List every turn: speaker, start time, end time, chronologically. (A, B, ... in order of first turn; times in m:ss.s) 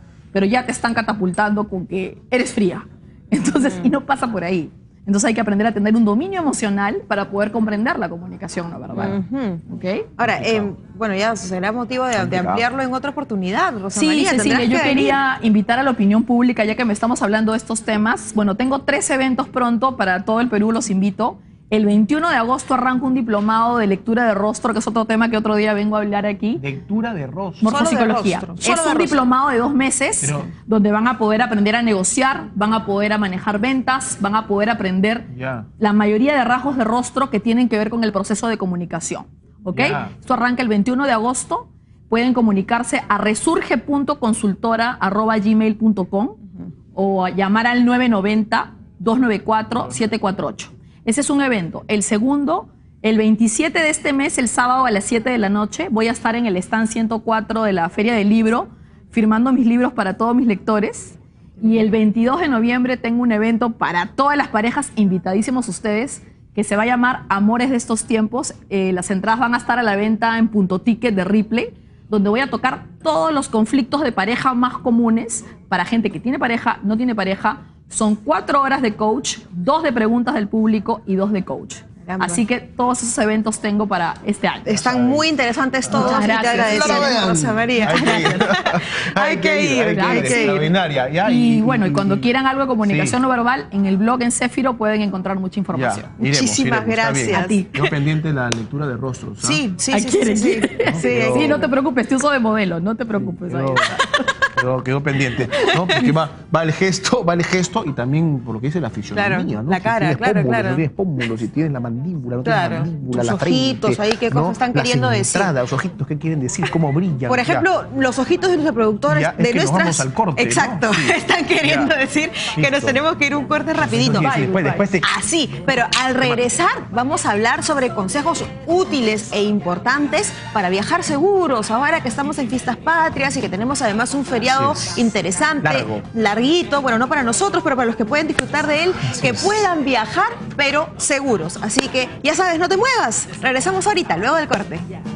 0:00.3-0:10.1 A
0:03.6-0:03.9 B
0:09.0-0:09.6 B
0:10.2-0:15.2 B
0:10.2-0:10.7 C
0:12.1-0:12.6 C
0:13.9-0:26.6 A
0:26.6-0:27.7 C
0:27.6-0:46.4 A
0:27.6-0:29.2 B
0:30.2-0:30.5 C
0:35.3-0:35.6 C
0:39.7-0:40.1 C
0:46.9-1:24.8 A
1:22.0-1:22.4 B
1:24.6-1:30.7 B
1:24.7-1:25.2 C
1:25.9-1:27.2 A
1:25.9-1:32.3 C
1:29.9-1:36.1 A
1:32.8-1:33.2 C
1:35.7-1:39.6 C
1:36.2-1:37.9 B
1:37.3-1:37.9 A
1:39.4-1:41.6 B
1:39.9-1:44.3 A
1:40.8-1:41.7 C
1:43.2-1:43.9 C
1:44.6-1:57.6 C
1:45.5-1:45.9 B
1:49.1-1:50.8 B
1:52.4-1:55.5 B
1:57.3-2:04.4 B
1:59.1-2:01.9 C
2:02.5-2:03.0 C
2:03.8-2:05.1 C
2:04.1-2:04.9 A
2:05.0-2:24.9 B
2:06.2-2:06.4 C
2:14.5-2:14.9 C
2:15.6-2:16.0 C
2:19.1-2:19.4 C